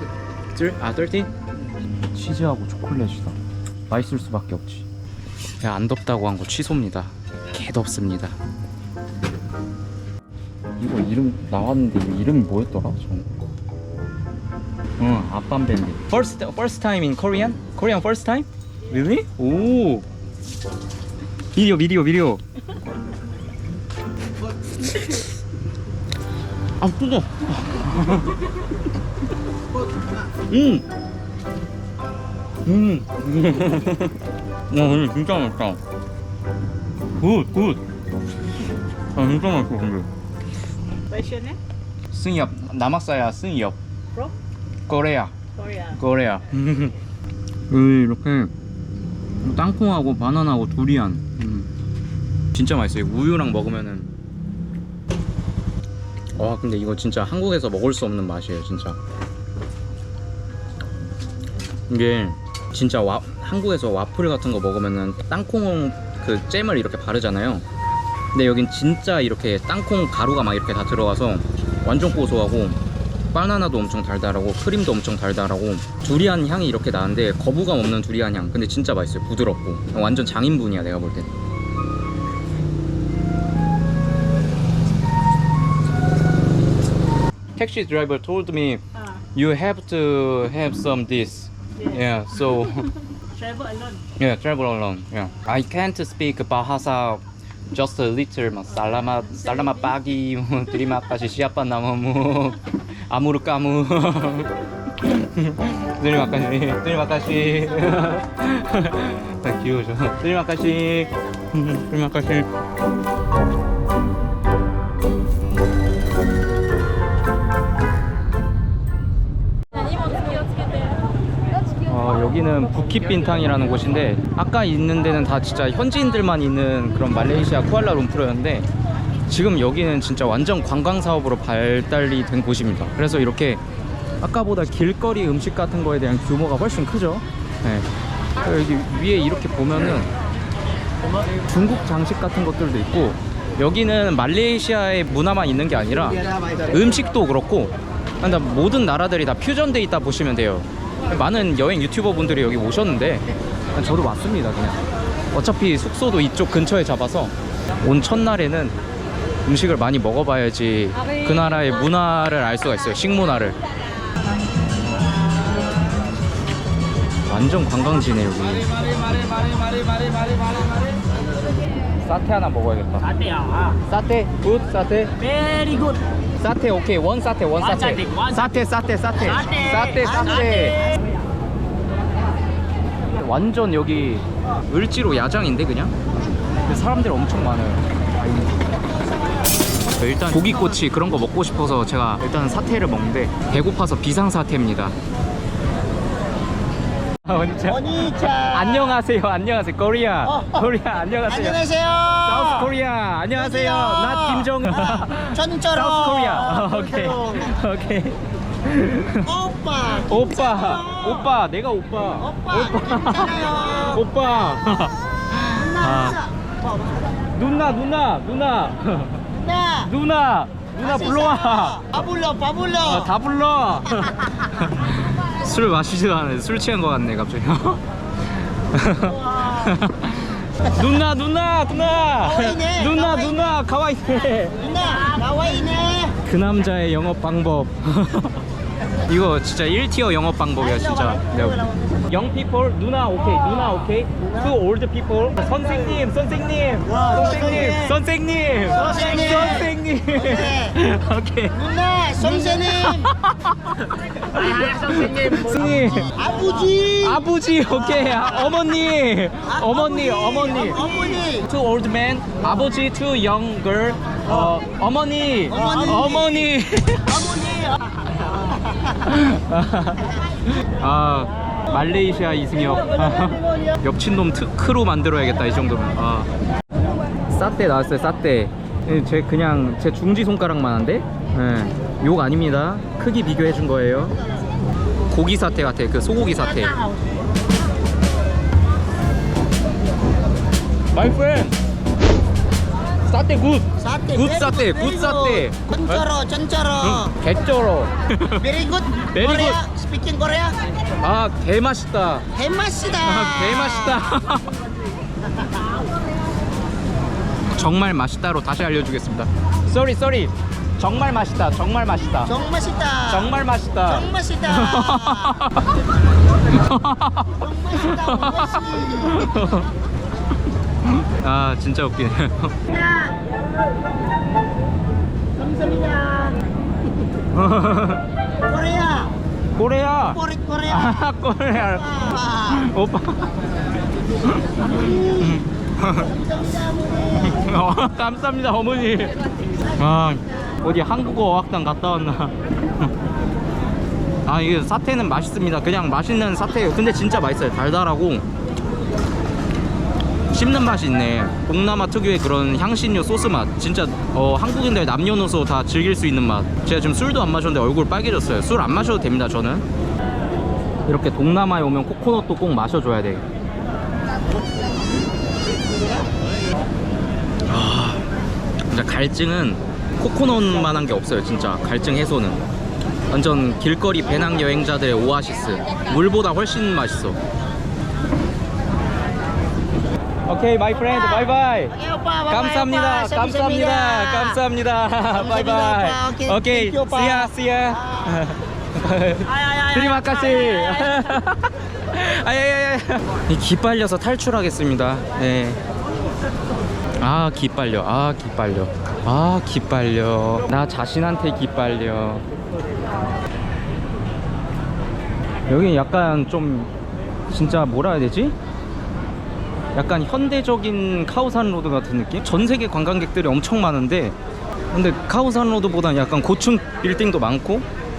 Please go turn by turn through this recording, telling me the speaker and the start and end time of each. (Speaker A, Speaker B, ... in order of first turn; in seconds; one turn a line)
Speaker A: 0.5-1.3
Speaker A: 2.0-3.4
Speaker A: 3.9-4.9
Speaker A: 5.6-8.4
Speaker A: 10.8-13.4
Speaker A: 15.0-20.1
Speaker A: 21.5-22.4
Speaker A: 26.8-28.4
Speaker A: 30.5-30.9
Speaker A: 32.6-34.2
Speaker A: 34.7-35.8
Speaker A: 37.2-37.8
Speaker A: 39.1-40.1
Speaker B: 41.1-41.6
Speaker A: 42.1-43.8
Speaker A: 44.9-45.3
Speaker B: 45.6-46.0
Speaker A: 45.9-47.0
Speaker A: 47.7-48.5
Speaker A: 49.4-51.7
Speaker A: 52.5-54.1
Speaker A: 56.4-59.0
Speaker A: 61.9-67.7
Speaker A: 68.3-72.8
Speaker A: 73.3-81.3
Speaker A: 87.6-88.8
Speaker A: 89.3-92.9
Speaker B: 93.3-94.0
Speaker A: 94.2-112.5
Speaker A: 121.9-128.7
Speaker A: 129.3-133.6
Speaker A: 134.2-137.9
Speaker A: 138.4-140.1
Speaker A: 141.5-154.8
Speaker A: 155.3-158.8
Speaker A: 159.4-163.6
Speaker A: 167.3-168.8
Speaker A: 172.0-173.1
Speaker B: 173.1-173.7
Speaker A: 173.8-175.2
Speaker C: 175.3-175.9
Speaker B: 175.3-176.0
Speaker A: 176.4-180.9
Speaker B: 178.0-178.3
Speaker C: 179.4-181.0
Speaker A: 183.1-186.0
Speaker A: 186.7-188.6
Speaker A: 190.0-195.0
Speaker A: 197.2-197.9
Speaker C: 197.7-199.0
Speaker A: 198.5-201.6
Speaker C: 200.2-200.6
Speaker C: 201.3-202.7
Speaker A: 202.2-209.3
Speaker C: 203.3-207.5
Speaker C: 209.2-211.3
Speaker A: 210.0-216.2
Speaker C: 212.2-214.0
Speaker C: 215.5-217.1
Speaker A: 217.3-219.3
Speaker C: 219.4-219.9
Speaker A: 219.8-222.1
Speaker C: 220.8-223.1
Speaker A: 222.8-227.8
Speaker A: 228.5-234.7
Speaker C: 229.0-229.7
Speaker C: 232.2-233.4
Speaker C: 234.6-236.2
Speaker A: 236.2-238.4
Speaker A: 239.1-251.6
Speaker C: 240.7-242.1
Speaker C: 246.9-247.9
Speaker C: 248.7-250.8
Speaker C: 251.6-253.1
Speaker A: 252.2-256.1
Speaker C: 254.3-255.3
Speaker C: 255.9-257.3
Speaker A: 257.0-267.4
Speaker C: 259.6-261.5
Speaker C: 265.5-266.2
Speaker C: 267.3-268.2
Speaker A: 268.9-276.3
Speaker A: 277.3-284.2
Speaker A: 285.1-286.8
Speaker C: 286.7-286.9
Speaker A: 290.9-291.6
Speaker A: 293.1-296.1
Speaker C: 293.8-297.1
Speaker A: 296.8-298.5
Speaker C: 298.4-300.6
Speaker A: 299.0-299.6
Speaker A: 301.0-302.3
Speaker C: 302.3-304.0
Speaker A: 302.9-304.5
Speaker A: 307.5-312.4
Speaker C: 312.3-313.3
Speaker A: 313.1-315.8
Speaker C: 313.9-315.5
Speaker A: 316.5-319.7
Speaker C: 317.4-319.3
Speaker A: 320.8-322.6
Speaker C: 322.7-323.2
Speaker C: 325.4-326.4
Speaker A: 327.3-328.0
Speaker C: 328.4-329.1
Speaker A: 329.5-333.3
Speaker C: 330.1-331.1
Speaker C: 331.8-332.6
Speaker A: 334.2-336.2
Speaker C: 334.7-335.3
Speaker C: 336.2-337.3
Speaker A: 337.1-339.2
Speaker A: 339.7-342.9
Speaker A: 344.2-348.3
Speaker A: 350.3-359.7
Speaker A: 360.9-363.2
Speaker A: 367.5-368.1
Speaker A: 368.7-372.4
Speaker A: 373.1-377.2
Speaker A: 380.3-381.8
Speaker C: 381.2-384.4
Speaker A: 382.3-395.6
Speaker C: 385.1-387.3
Speaker C: 387.9-388.1
Speaker C: 389.3-391.0
Speaker A: 397.0-402.3
Speaker A: 405.5-406.7
Speaker A: 407.3-408.4
Speaker A: 409.7-414.2
Speaker A: 414.7-417.7